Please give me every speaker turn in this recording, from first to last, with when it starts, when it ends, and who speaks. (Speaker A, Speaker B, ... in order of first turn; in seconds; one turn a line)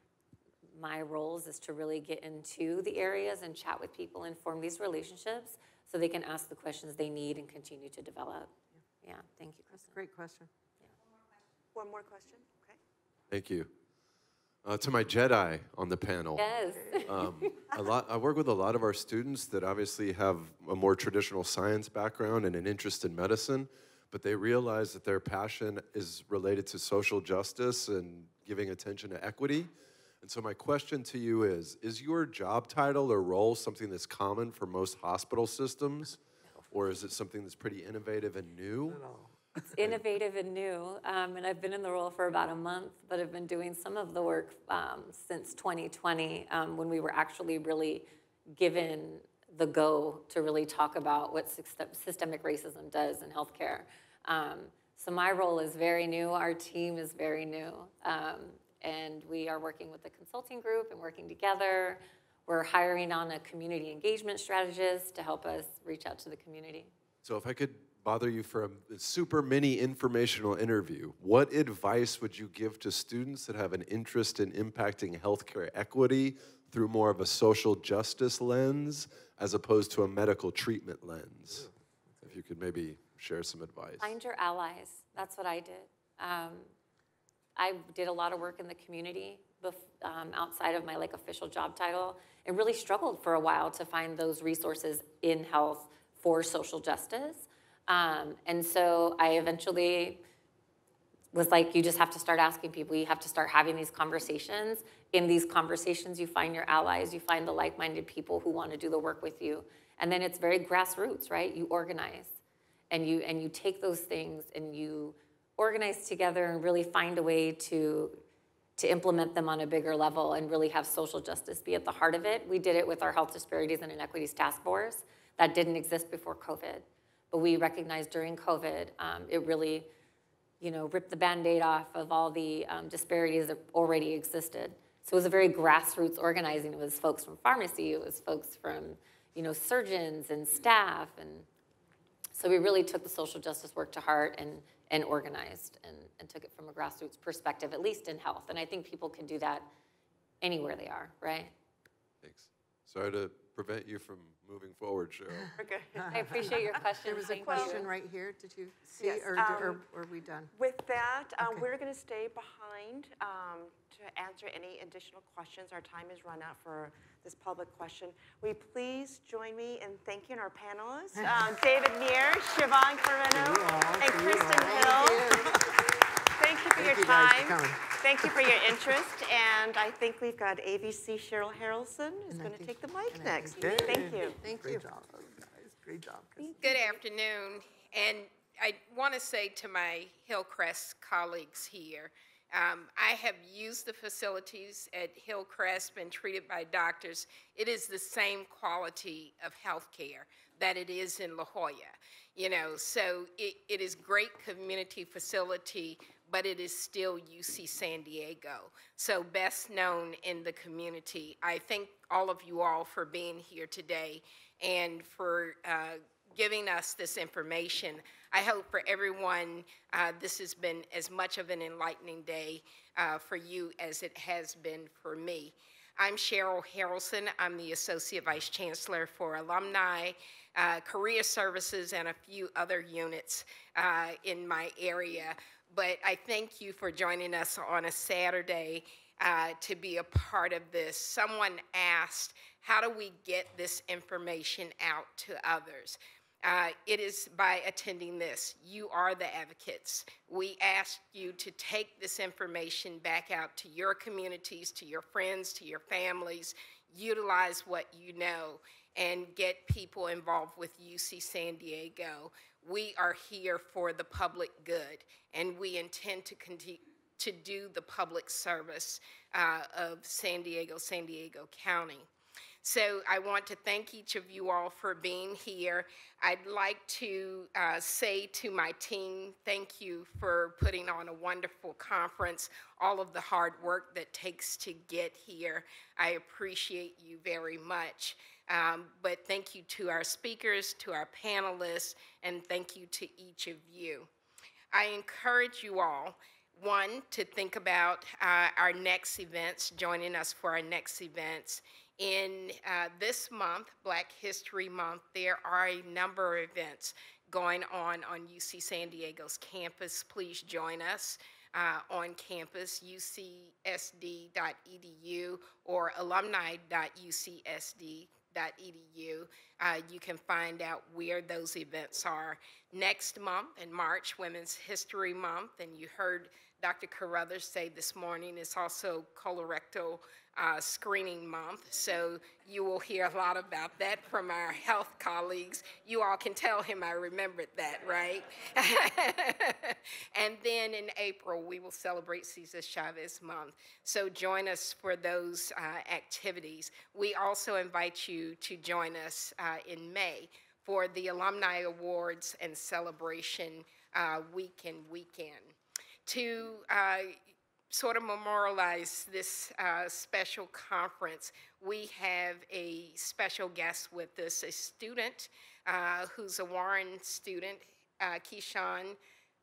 Speaker A: 0.7-9.9
Speaker B: 9.7-10.5
Speaker C: 11.7-12.8
Speaker D: 13.3-13.7
Speaker D: 14.6-16.4
Speaker A: 16.4-17.7
Speaker D: 17.1-29.7
Speaker D: 30.2-39.0
Speaker E: 38.9-39.7
Speaker A: 39.7-66.9
Speaker D: 67.2-81.7
Speaker D: 82.2-84.1
Speaker A: 84.0-86.7
Speaker A: 87.5-100.2
Speaker A: 101.3-112.4
Speaker A: 112.9-118.2
Speaker A: 118.8-129.9
Speaker A: 130.6-141.5
Speaker A: 142.3-149.7
Speaker A: 150.4-151.5
Speaker D: 152.2-155.5
Speaker C: 155.5-156.5
Speaker A: 156.1-157.9
Speaker B: 157.0-160.5
Speaker C: 157.4-157.8
Speaker C: 159.0-159.8
Speaker C: 160.5-175.5
Speaker E: 173.3-175.6
Speaker B: 174.3-175.6
Speaker C: 176.2-184.4
Speaker E: 176.8-178.8
Speaker B: 182.3-184.8
Speaker E: 183.5-186.6
Speaker B: 186.4-186.9
Speaker F: 186.6-272.1
Speaker F: 272.6-294.1
Speaker F: 294.7-355.5
Speaker F: 356.1-357.2
Speaker F: 357.7-369.0